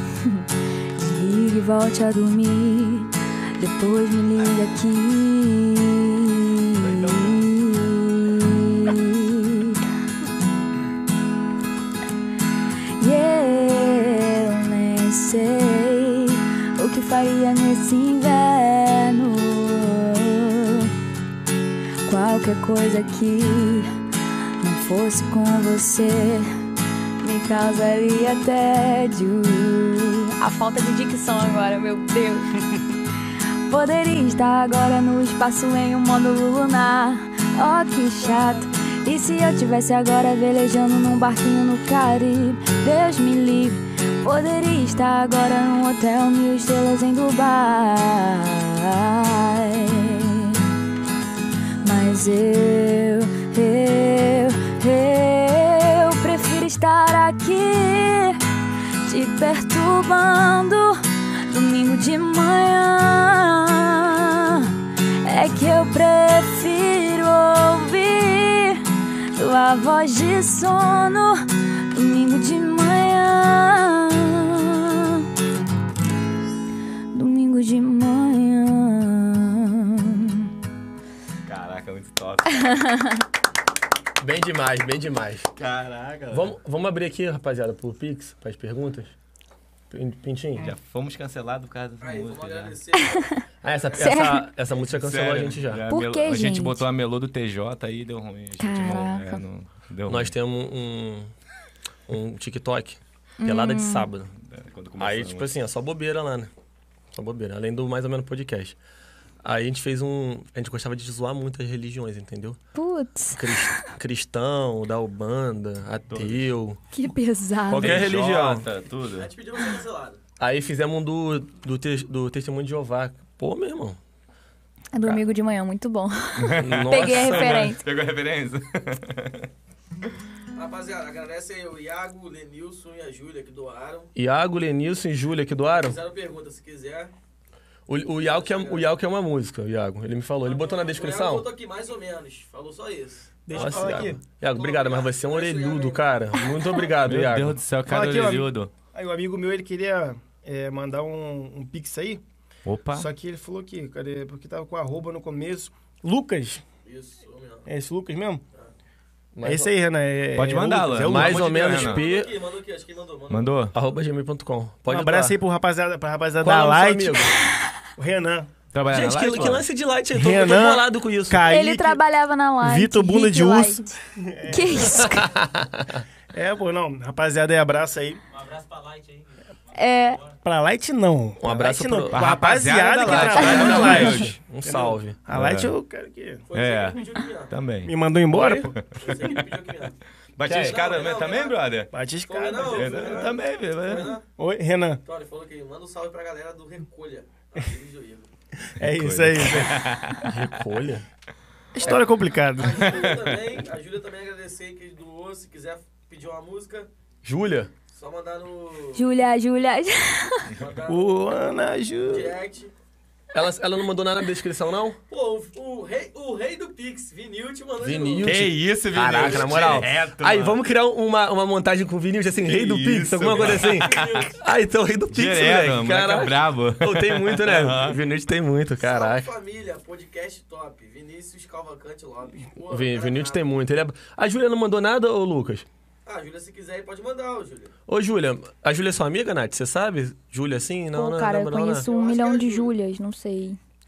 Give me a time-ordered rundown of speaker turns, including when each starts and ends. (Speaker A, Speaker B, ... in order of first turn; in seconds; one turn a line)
Speaker A: 0.2-9.8
Speaker B: 6.7-7.5
Speaker A: 13.0-20.9
Speaker A: 22.1-23.9
Speaker A: 24.6-26.5
Speaker A: 27.2-32.6
Speaker A: 33.6-50.6
Speaker A: 51.8-58.4
Speaker A: 59.0-75.2
Speaker A: 77.1-80.5
Speaker B: 81.4-82.8
Speaker A: 82.7-83.2
Speaker C: 84.2-85.5
Speaker B: 85.5-86.5
Speaker C: 86.3-89.1
Speaker C: 89.9-90.7
Speaker B: 90.6-92.8
Speaker D: 92.0-94.2
Speaker C: 93.6-95.8
Speaker A: 94.0-94.5
Speaker B: 94.8-100.3
Speaker A: 95.9-96.8
Speaker A: 98.6-99.4
Speaker C: 100.1-101.3
Speaker C: 102.1-104.3
Speaker A: 103.4-104.1
Speaker B: 104.3-105.5
Speaker C: 105.0-106.5
Speaker C: 107.1-108.8
Speaker C: 109.4-112.6
Speaker A: 112.7-113.8
Speaker C: 113.3-116.8
Speaker B: 116.1-116.5
Speaker A: 116.9-118.0
Speaker C: 117.7-118.7
Speaker B: 117.8-119.3
Speaker D: 119.0-120.2
Speaker C: 120.4-124.0
Speaker A: 124.9-127.8
Speaker B: 126.4-129.5
Speaker C: 126.5-127.7
Speaker D: 130.5-134.1
Speaker C: 134.2-136.0
Speaker D: 135.7-137.1
Speaker C: 137.9-141.5
Speaker D: 138.2-138.9
Speaker D: 140.4-146.8
Speaker E: 143.4-144.2
Speaker C: 143.5-147.6
Speaker B: 147.0-148.7
Speaker E: 147.8-152.2
Speaker B: 152.6-153.1
Speaker E: 152.9-156.6
Speaker D: 156.8-157.7
Speaker E: 157.7-158.4
Speaker C: 159.3-159.7
Speaker E: 159.4-161.5
Speaker B: 160.3-162.0
Speaker C: 161.0-162.3
Speaker D: 161.5-163.7
Speaker B: 163.3-163.7
Speaker C: 163.7-165.3
Speaker E: 164.9-167.3
Speaker C: 166.4-167.3
Speaker E: 168.0-168.5
Speaker B: 168.7-169.6
Speaker C: 168.9-171.4
Speaker E: 170.1-172.0
Speaker A: 171.4-173.9
Speaker E: 172.6-175.2
Speaker A: 174.5-175.4
Speaker C: 175.0-176.0
Speaker E: 176.3-178.2
Speaker F: 178.3-180.4
Speaker A: 179.7-180.2
Speaker E: 180.4-186.5
Speaker C: 181.4-182.2
Speaker B: 182.1-184.3
Speaker C: 183.1-185.2
Speaker A: 183.3-184.0
Speaker B: 185.3-185.7
Speaker D: 186.5-187.5
Speaker B: 186.5-189.4
Speaker E: 187.8-188.8
Speaker C: 188.3-188.7
Speaker D: 188.9-194.3
Speaker B: 190.4-191.9
Speaker C: 190.5-190.8
Speaker E: 191.9-193.3
Speaker B: 192.6-194.2
Speaker E: 194.3-195.0
Speaker D: 195.0-198.3
Speaker E: 198.7-199.8
Speaker B: 198.8-200.4
Speaker C: 200.2-201.1
Speaker E: 201.8-203.1
Speaker D: 201.8-206.9
Speaker B: 202.7-203.4
Speaker C: 207.2-207.7
Speaker D: 207.9-209.1
Speaker A: 208.9-210.5
Speaker D: 210.5-211.5
Speaker E: 210.9-212.3
Speaker D: 212.0-212.7
Speaker C: 213.3-215.0
Speaker D: 215.1-218.3
Speaker C: 217.8-229.3
Speaker B: 218.2-220.6
Speaker D: 219.2-219.8
Speaker B: 222.4-224.2
Speaker D: 223.2-224.4
Speaker B: 225.1-228.0
Speaker D: 228.8-233.4
Speaker C: 232.7-235.7
Speaker D: 236.0-237.7
Speaker C: 237.9-241.9
Speaker A: 240.9-243.6
Speaker D: 241.8-242.7